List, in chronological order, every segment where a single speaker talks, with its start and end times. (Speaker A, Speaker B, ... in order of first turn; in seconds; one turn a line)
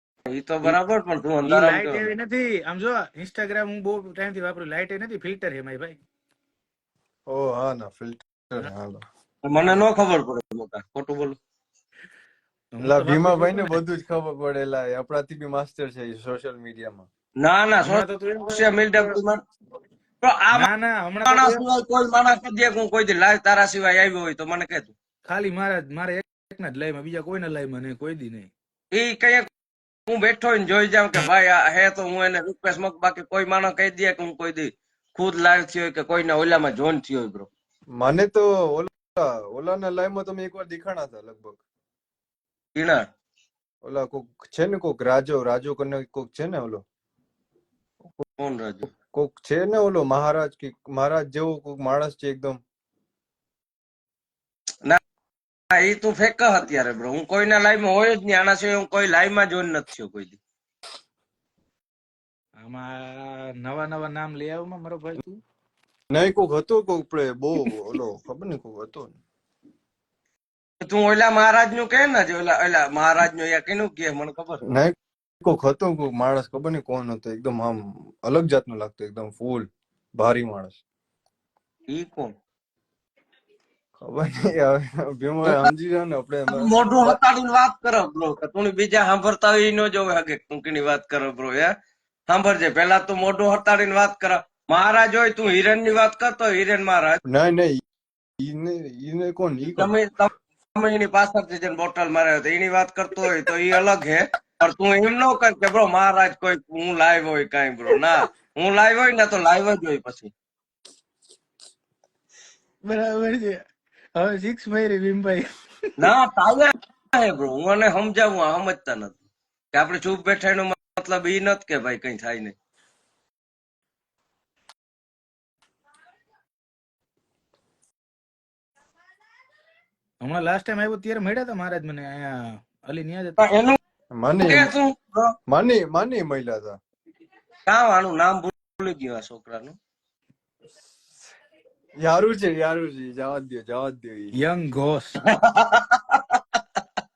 Speaker A: 0.3-2.1
Speaker B: 1.5-6.0
Speaker C: 7.3-9.0
Speaker A: 9.4-11.4
Speaker B: 12.7-13.8
Speaker C: 12.8-17.1
Speaker A: 17.4-19.4
Speaker B: 17.8-19.2
Speaker A: 20.2-20.7
Speaker B: 20.5-21.6
Speaker A: 21.2-24.9
Speaker B: 25.3-28.5
Speaker A: 28.9-29.5
Speaker A: 30.1-37.5
Speaker C: 37.9-41.6
Speaker C: 43.8-46.8
Speaker A: 48.4-48.9
Speaker C: 49.1-52.6
Speaker A: 55.7-60.4
Speaker B: 62.6-65.4
Speaker C: 66.1-69.2
Speaker A: 70.8-74.7
Speaker C: 74.7-80.8
Speaker A: 81.9-82.3
Speaker C: 84.0-87.2
Speaker A: 86.5-91.7
Speaker A: 92.3-97.2
Speaker C: 97.2-97.8
Speaker C: 98.4-99.9
Speaker A: 99.7-110.3
Speaker B: 112.8-113.6
Speaker B: 114.2-115.9
Speaker A: 116.0-119.2
Speaker A: 119.7-122.5
Speaker B: 130.2-133.5
Speaker A: 133.4-133.8
Speaker C: 134.2-134.7
Speaker A: 134.4-135.4
Speaker C: 135.5-136.8
Speaker A: 137.7-139.8
Speaker C: 142.0-144.4
Speaker B: 144.4-145.2
Speaker A: 145.3-146.6